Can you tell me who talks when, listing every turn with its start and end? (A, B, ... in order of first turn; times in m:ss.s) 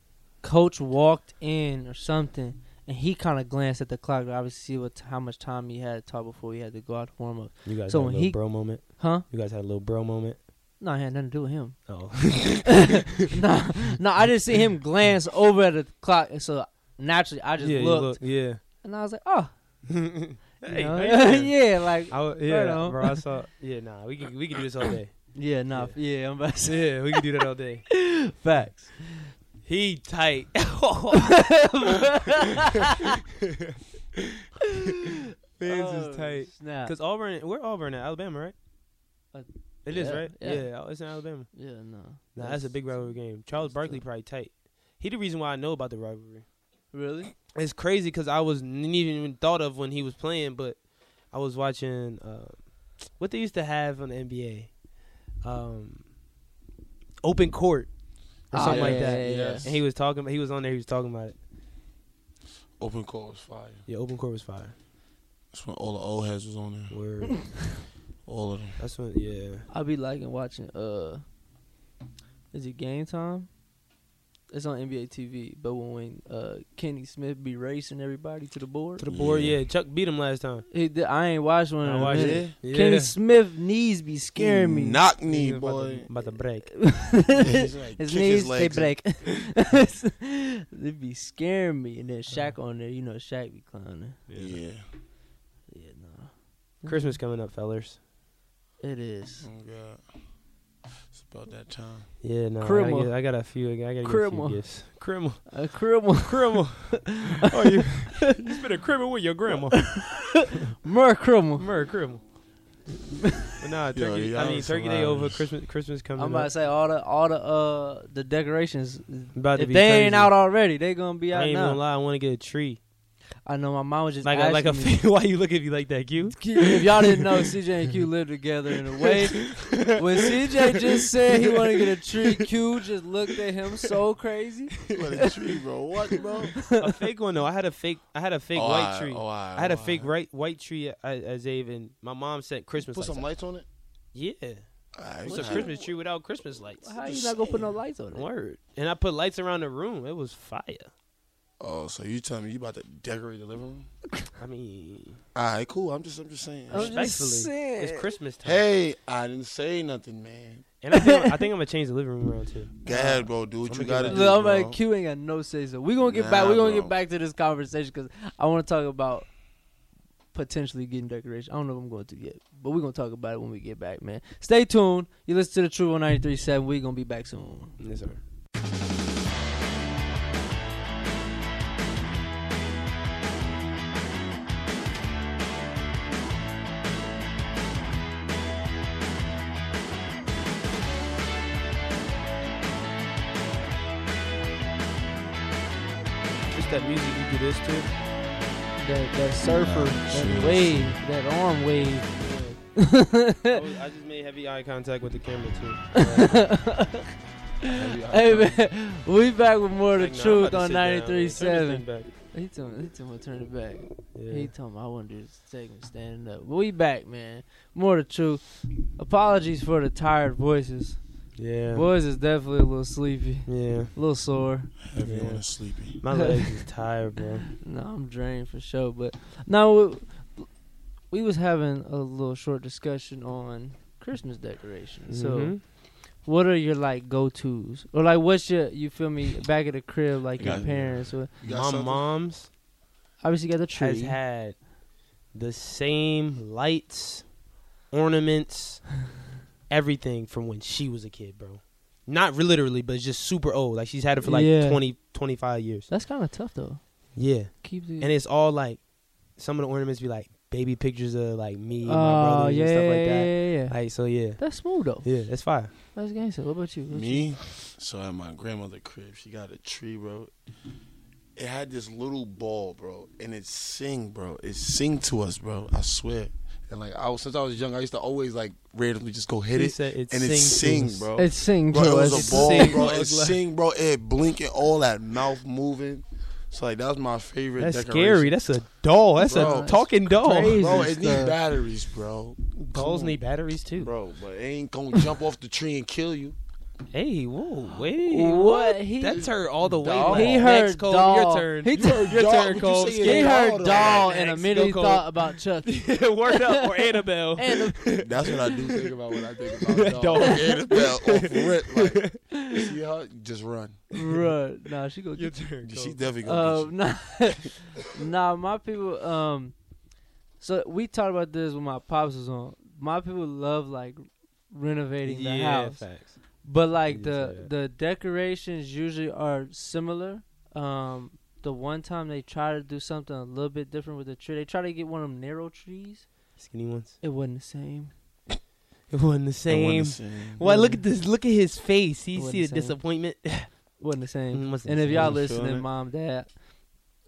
0:00.4-0:09.2 A
0:07.6-0:10.4 B
0:10.8-0:19.5 A
0:11.9-0:13.0 B
0:17.6-0:18.6 B
0:19.9-0:26.0 B
0:20.6-0:23.2 A
0:25.3-0:27.2 A
0:26.5-0:27.9 B
0:27.9-0:29.3 A
0:29.6-0:31.6 B
0:31.4-0:33.2 A
0:33.6-0:34.2 B
0:35.6-0:38.5 B
0:35.6-0:36.9 A
0:39.3-0:44.0 A
0:39.8-0:41.5 B
0:42.3-0:46.4 B
0:46.9-0:47.3 A
0:47.5-0:54.7 B
0:55.4-0:56.0 B
0:57.2-0:57.9 B
0:58.5-1:01.4 B
0:58.5-0:59.7 A
0:58.5-0:59.8 C
1:02.8-1:03.8 C
1:03.9-1:04.8 B
1:05.5-1:07.0 C
1:06.9-1:07.5 B
1:08.2-1:08.8 C
1:08.8-1:09.6 B
1:09.7-1:11.2 A
1:12.5-1:13.5 A
1:14.5-1:19.0 A
1:19.0-1:20.6 B
1:19.1-1:19.6 C
1:20.7-1:25.0 A
1:21.8-1:23.1 B
1:22.0-1:22.5 C
1:24.4-1:26.1 C
1:25.3-1:26.8 B
1:26.6-1:34.2 A
1:27.4-1:29.2 C
1:34.3-1:34.6 B
1:34.3-1:34.8 C
1:35.7-1:37.2 A
1:36.8-1:38.0 B
1:38.8-1:39.5 A
1:39.4-1:40.2 C
1:41.1-1:42.1 C
1:42.2-1:45.6 B
1:42.6-1:43.1 A
1:44.0-1:44.8 A
1:45.5-1:48.3 A
1:46.2-1:50.7 B
1:49.7-1:51.7 A
1:51.6-1:52.2 B
1:53.1-1:53.6 A
1:53.6-1:56.5 B
1:53.9-1:55.5 C
1:56.2-2:01.8 A
1:59.3-2:00.3 B
2:01.3-2:02.8 B
2:03.4-2:05.0 A
2:04.2-2:06.8 B
2:06.3-2:15.3 A
2:09.0-2:10.8 B
2:14.9-2:15.3 B
2:14.9-2:16.6 C
2:16.6-2:16.8 A
2:16.7-2:23.2 B
2:18.5-2:20.1 C
2:22.8-2:23.6 C
2:24.1-2:24.6 B
2:24.9-2:25.8 C
2:25.2-2:26.9 B
2:25.2-2:25.8 A
2:26.8-2:28.3 A
2:27.0-2:27.7 C
2:28.1-2:30.9 B
2:31.6-2:33.9 C
2:34.4-2:35.2 B
2:35.3-2:36.9 C
2:36.7-2:38.1 A
2:36.7-2:38.6 B
2:38.4-2:40.6 C
2:40.8-2:42.9 B
2:40.9-2:41.3 A
2:42.8-2:44.8 C
2:42.9-2:43.3 A
2:43.6-2:44.3 B
2:44.0-2:49.3 A
2:46.0-2:46.9 C
2:50.3-2:57.8 A
2:57.8-2:58.2 B
3:16.5-3:17.9 B
3:18.8-3:22.2 A
3:19.5-3:21.0 C
3:22.2-3:22.6 B
3:22.8-3:23.6 A
3:23.5-3:26.6 B
3:25.9-3:27.1 A
3:27.6-3:28.6 C
3:27.6-3:41.0 A
3:29.9-3:32.1 B
3:34.1-3:34.5 B
3:41.4-3:41.9 B
3:41.7-3:44.7 A
3:43.5-3:43.9 B
3:44.8-3:46.0 C
3:45.0-3:47.5 B
3:46.1-3:46.7 A
3:47.6-3:50.5 A
3:51.1-4:01.3 A
3:55.1-3:55.6 B
4:00.4-4:02.1 C
4:01.4-4:02.5 B
4:03.2-4:04.2 A
4:03.8-4:04.6 B
4:05.3-4:07.3 B
4:07.9-4:08.9 B
4:09.7-4:15.9 B
4:14.2-4:14.8 A
4:15.9-4:18.1 A
4:17.1-4:25.7 B
4:21.8-4:25.2 A
4:25.9-4:27.4 A
4:26.9-4:30.3 C
4:31.4-4:48.3 C
4:39.5-4:41.1 B
4:41.2-4:42.9 A
4:42.1-4:43.4 B
4:47.6-4:50.6 B
4:49.2-4:51.4 A
4:49.2-4:49.9 C
4:50.4-4:53.2 C
4:52.6-4:53.9 B
4:53.8-4:56.4 C
4:56.9-5:12.4 B
4:58.0-4:59.4 A
4:59.1-5:00.5 C
4:59.9-5:02.2 A
5:01.7-5:04.1 C
5:03.0-5:08.3 A
5:08.0-5:14.0 C
5:13.9-5:15.5 A
5:15.1-5:16.0 B
5:15.6-5:17.2 C
5:16.2-5:19.6 A
5:20.4-5:25.9 A
5:25.0-5:26.2 B
5:26.4-5:36.1 A
5:26.9-5:27.5 B
5:36.4-5:37.0 B
5:37.0-5:37.9 A
5:38.9-5:43.6 B
5:39.5-5:40.4 C
5:40.4-5:40.8 A
5:42.1-5:42.8 A
5:43.8-5:46.4 A
5:44.3-5:45.2 B
5:44.9-5:45.6 C